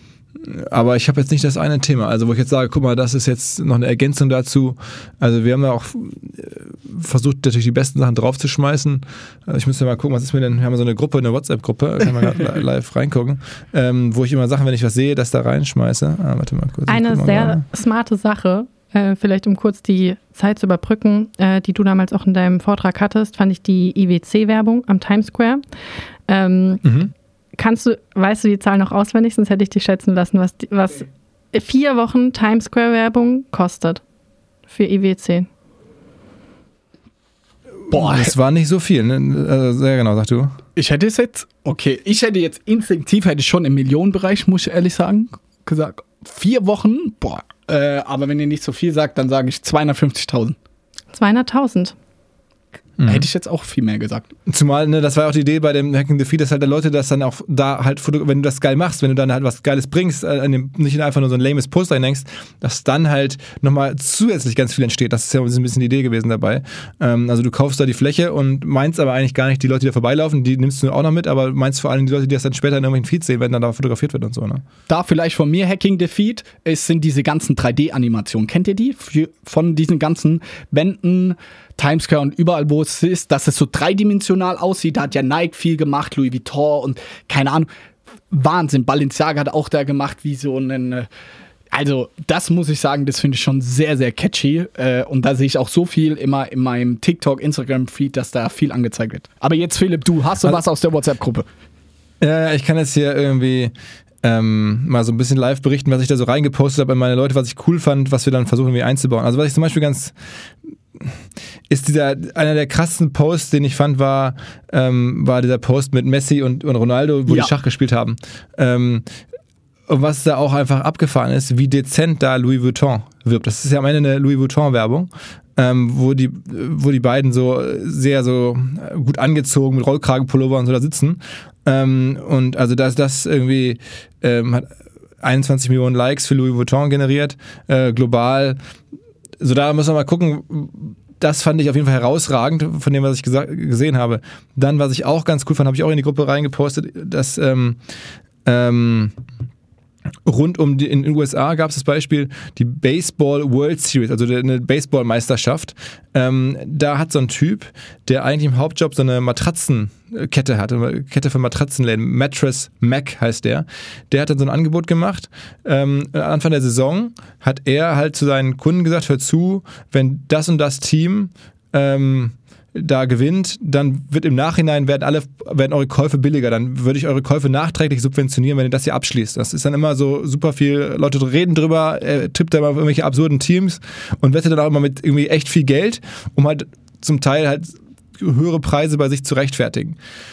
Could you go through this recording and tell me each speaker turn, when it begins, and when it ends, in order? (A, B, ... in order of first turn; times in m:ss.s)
0:00.4-0:17.7 A
0:16.9-0:25.6 B
0:26.3-0:26.8 B
0:26.8-0:27.1 A
0:27.6-0:34.0 B
0:34.7-0:35.5 B
0:37.9-0:40.6 A
0:37.9-0:38.3 C
0:40.8-0:50.6 C
0:51.1-0:52.0 B
0:53.0-0:53.3 A
0:53.1-0:54.3 C
0:54.5-1:14.6 A
1:14.9-1:27.7 C
1:28.3-1:31.1 C
1:31.7-1:41.5 C
1:42.2-1:50.1 A
1:51.7-1:59.1 A
1:59.9-2:14.7 A
2:15.2-2:18.6 A
2:19.4-2:27.8 A
2:28.4-2:29.2 A
2:30.2-3:10.0 A